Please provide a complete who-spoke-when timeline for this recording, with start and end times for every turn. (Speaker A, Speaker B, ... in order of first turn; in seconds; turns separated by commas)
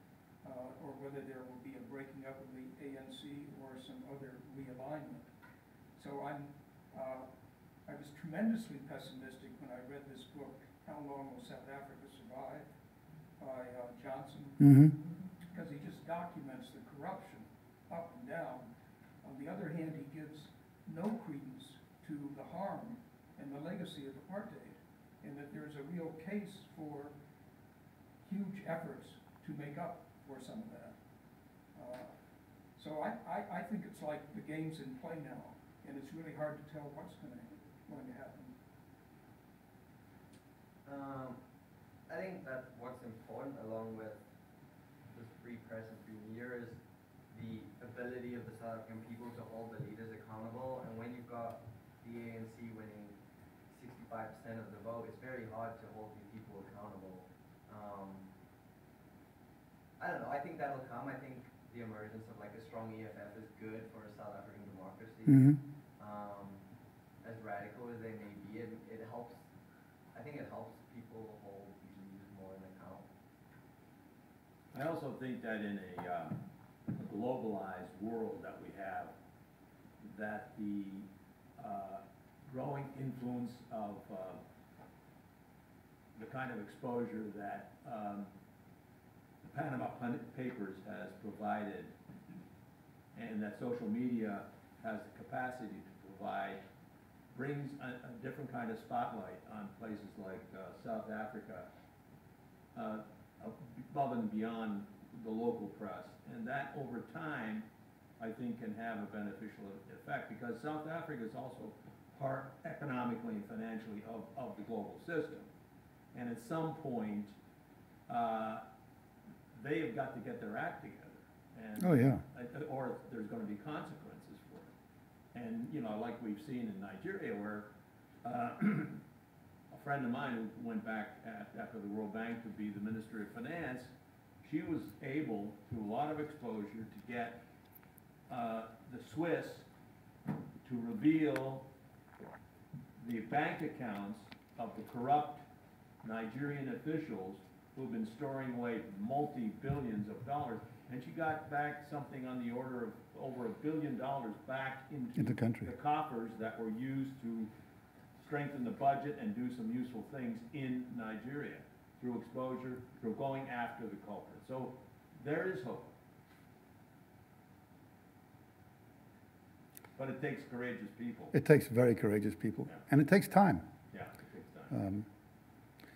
Speaker A: 0.4-5.3, Speaker A: 6.0-7.3, Speaker A: 7.8-12.7, Speaker A: 13.4-14.8, Speaker B: 14.6-14.9, Speaker A: 15.5-18.6, Speaker A: 19.2-27.1, Speaker A: 28.2-30.9, Speaker A: 31.7-32.1, Speaker A: 32.8-38.5, Speaker C: 40.8-41.4, Speaker C: 42.1-44.2, Speaker C: 45.1-53.1, Speaker C: 53.7-58.2, Speaker C: 60.0-66.6, Speaker B: 65.3-65.6, Speaker C: 67.2-69.4, Speaker C: 70.1-73.1, Speaker D: 74.7-76.4, Speaker D: 76.9-79.1, Speaker D: 80.0-81.1, Speaker D: 81.6-84.4, Speaker D: 86.2-88.3, Speaker D: 89.4-91.9, Speaker D: 93.1-96.6, Speaker D: 97.3-101.7, Speaker D: 102.7-107.7, Speaker D: 108.2-115.5, Speaker D: 116.1-117.3, Speaker D: 118.1-118.6, Speaker D: 119.5-124.7, Speaker B: 121.8-122.2, Speaker D: 125.3-127.7, Speaker D: 128.2-129.0, Speaker D: 129.7-133.9, Speaker D: 134.4-137.4, Speaker D: 138.3-139.7, Speaker D: 140.6-141.7, Speaker D: 143.0-145.4, Speaker D: 146.0-157.5, Speaker B: 155.1-155.7, Speaker D: 158.2-165.9, Speaker D: 169.9-171.3, Speaker B: 171.3-173.6, Speaker D: 173.9-174.7, Speaker B: 174.7-175.1